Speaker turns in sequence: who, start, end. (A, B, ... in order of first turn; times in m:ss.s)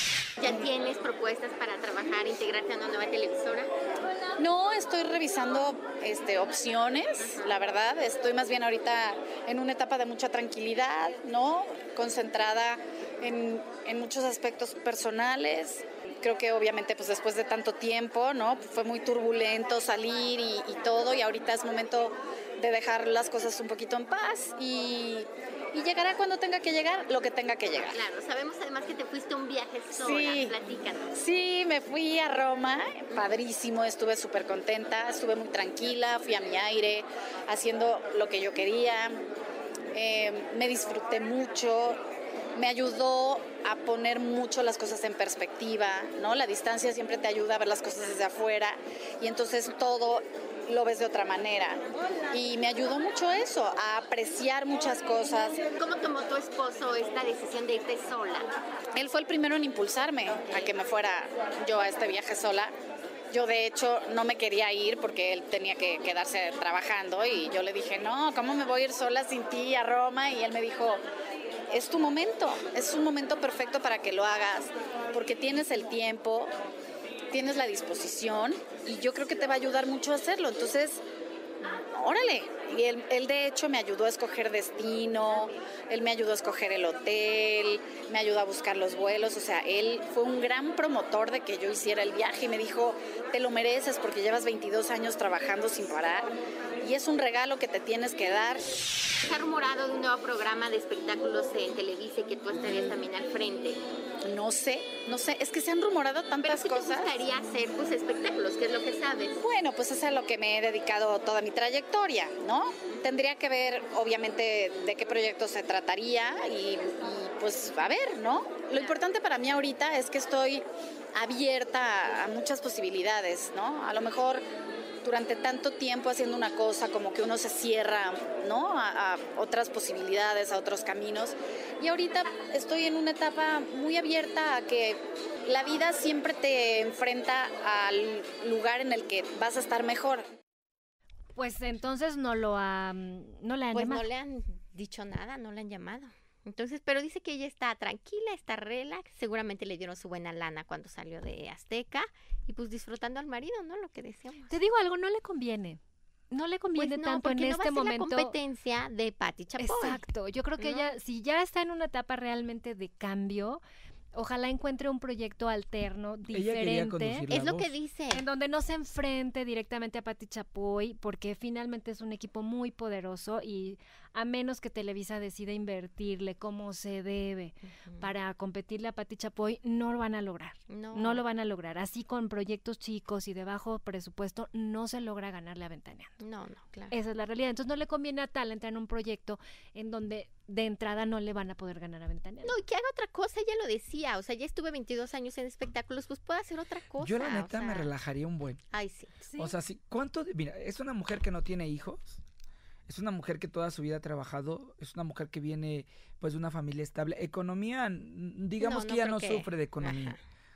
0:00.4-0:03.7 A
0:04.4-0:28.0 B
0:27.8-0:31.1 A
0:30.0-0:30.5 B
0:31.1-0:39.2 B
0:39.9-0:42.0 B
0:42.6-0:55.6 B
0:55.8-0:58.5 A
0:58.9-1:02.7 B
1:03.3-1:11.0 B
1:11.7-1:16.5 B
1:17.3-1:21.0 B
1:21.6-1:38.6 B
1:39.2-1:43.8 A
1:42.6-1:43.0 B
1:44.2-1:47.2 B
1:46.4-1:49.4 A
1:49.4-2:00.6 B
2:01.2-2:04.4 B
2:05.0-2:20.2 B
2:21.4-2:24.0 C
2:23.7-2:34.6 A
2:34.5-2:35.8 C
2:36.3-2:38.3 C
2:36.7-2:40.0 A
2:39.6-2:43.6 C
2:40.6-2:40.9 A
2:44.1-2:47.2 C
2:46.3-2:47.7 D
2:47.3-2:48.2 A
2:48.1-3:06.2 C
2:57.8-2:58.1 A
3:00.7-3:01.2 A
3:06.2-3:06.9 A
3:06.9-3:12.5 C
3:12.4-3:17.9 A
3:17.0-3:18.6 D
3:18.7-3:19.2 A
3:19.2-3:19.5 C
3:19.4-3:22.2 D
3:22.9-3:30.2 D
3:28.6-3:30.2 A